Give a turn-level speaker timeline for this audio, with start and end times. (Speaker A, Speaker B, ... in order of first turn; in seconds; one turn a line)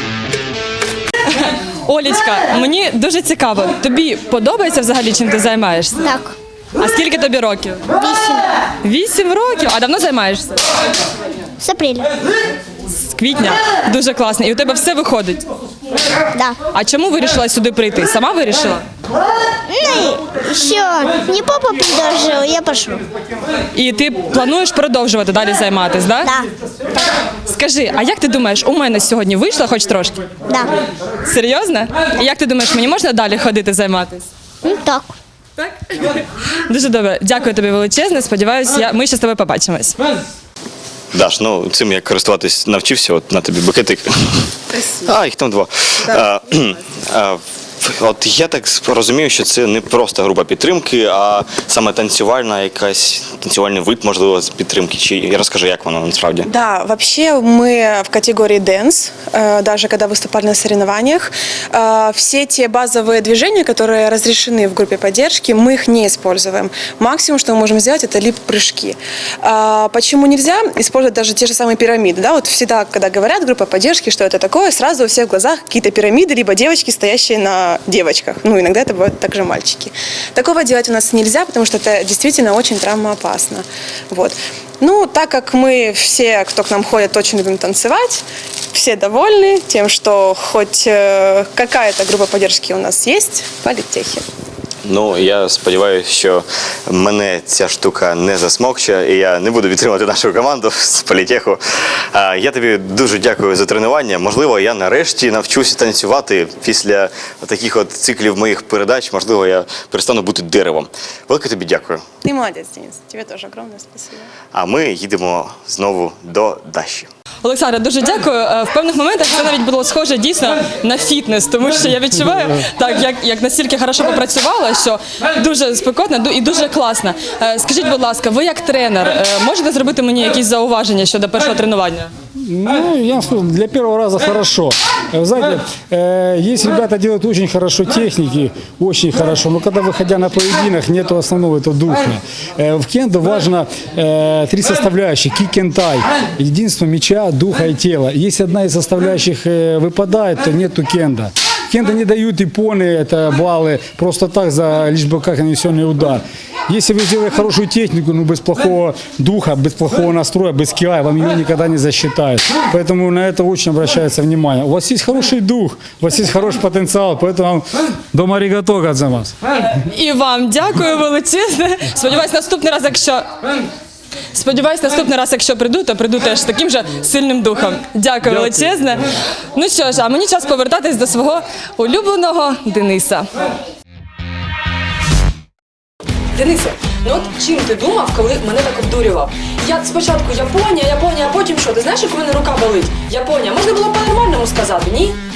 Speaker A: 1.2-6.1
Speaker B: 6.0-6.3
Speaker A: 6.8-7.9
Speaker B: 8.0-8.4
Speaker A: 8.8-10.7
Speaker B: 11.6-12.1
Speaker A: 12.9-15.4
Speaker A: 16.7-18.9
Speaker B: 19.7-23.0
Speaker A: 23.7-26.4
Speaker A: 27.4-30.3
Speaker A: 31.2-34.3
Speaker B: 34.6-35.1
Speaker A: 35.6-40.0
Speaker C: 41.1-56.5
Speaker D: 44.7-45.1
Speaker D: 56.4-94.2
Speaker C: 94.8-112.0
Speaker D: 112.2-114.3
Speaker C: 114.5-117.1
Speaker A: 117.4-132.1
Speaker E: 132.4-169.3
Speaker A: 169.7-173.4
Speaker A: 174.3-183.4
Speaker E: 178.2-178.7
Speaker A: 186.3-195.2